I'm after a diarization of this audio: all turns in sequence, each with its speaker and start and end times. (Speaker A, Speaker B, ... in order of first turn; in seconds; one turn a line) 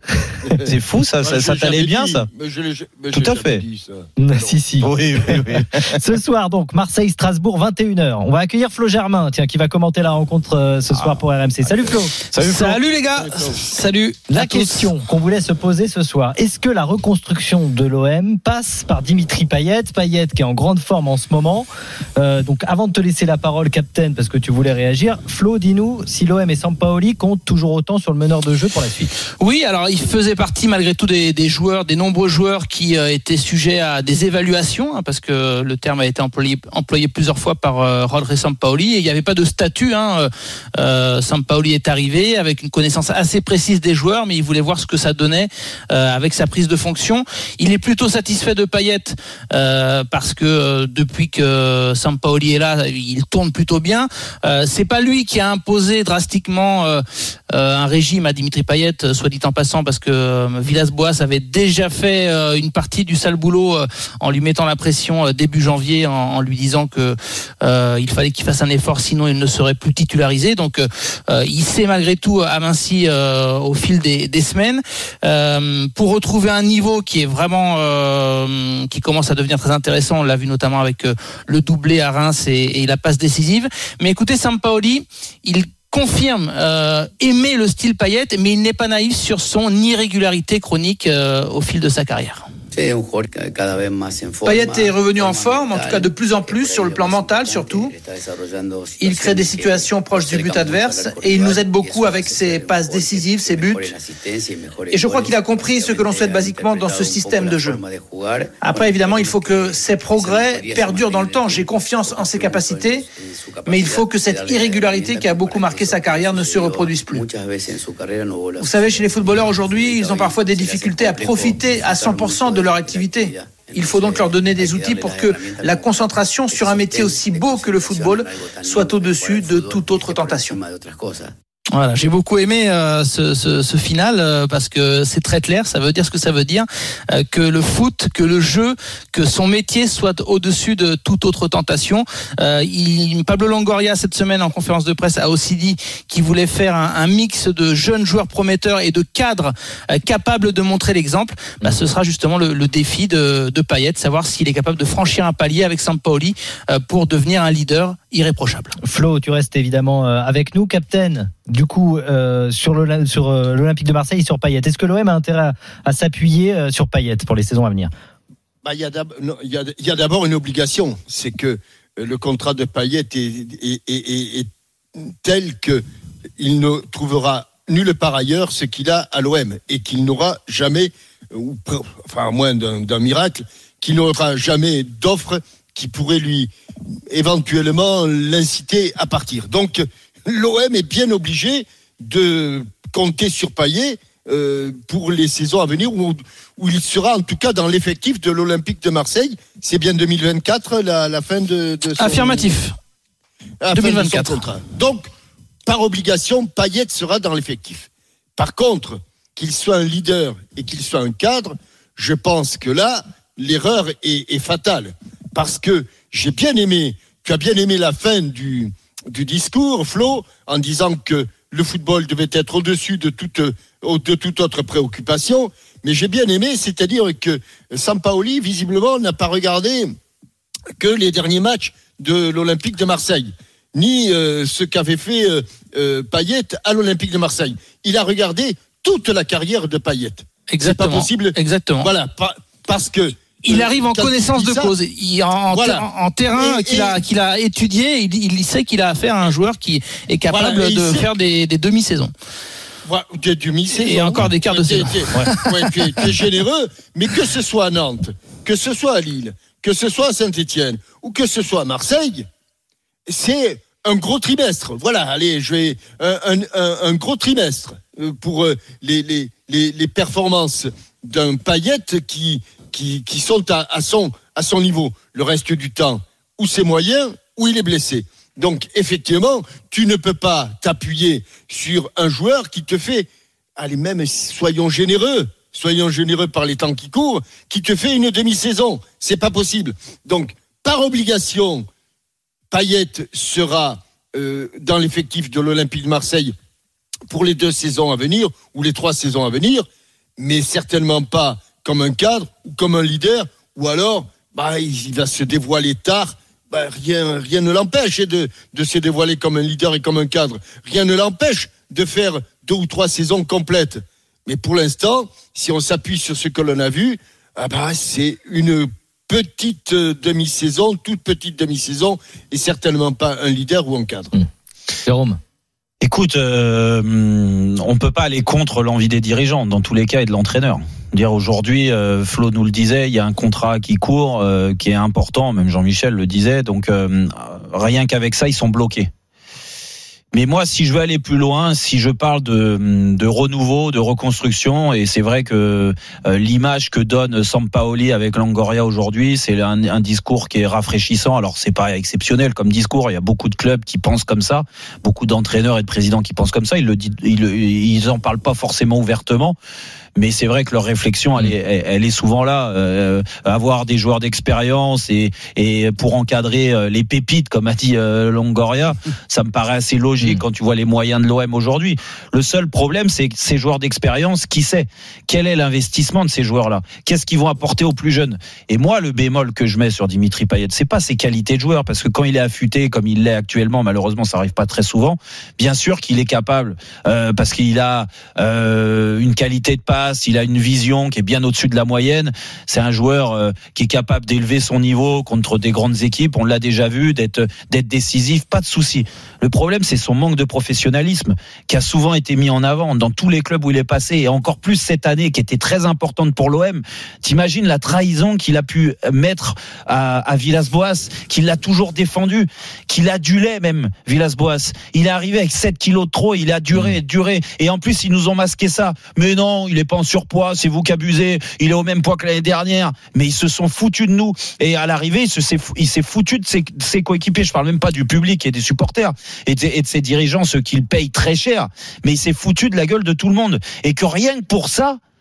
Speaker A: 0.6-2.3
Speaker B: 1.2-4.6
Speaker A: 3.1-3.6
Speaker C: 4.2-5.4
Speaker A: 4.8-5.9
Speaker C: 5.9-12.2
Speaker A: 11.8-12.8
Speaker D: 12.3-14.9
Speaker B: 13.1-13.7
Speaker C: 14.3-29.1
Speaker D: 29.4-92.5
Speaker E: 92.7-131.3
Speaker D: 94.4-97.9
Speaker D: 99.0-103.9
Speaker D: 104.9-107.8
Speaker D: 108.6-113.0
Speaker D: 113.6-117.2
Speaker D: 118.6-130.6
Speaker D: 131.7-158.7
Speaker C: 158.8-167.9
Speaker B: 168.6-175.8
Speaker B: 176.4-186.5
Speaker B: 187.1-202.6
Speaker D: 202.0-202.7
Speaker B: 203.6-205.1
Speaker D: 203.7-204.4
Speaker B: 205.7-229.9
Speaker B: 230.8-244.7
Speaker D: 240.5-241.9
Speaker D: 243.4-252.1
Speaker B: 245.5-247.0
Speaker B: 250.3-251.1
Speaker B: 252.8-262.3
Speaker D: 253.7-255.7
Speaker B: 263.1-291.7
Speaker B: 292.5-296.3
Speaker B: 297.1-299.7
Speaker B: 300.2-324.1
Speaker C: 324.9-325.2
Speaker A: 325.8-338.9
Speaker A: 340.1-359.4
Speaker A: 359.9-434.8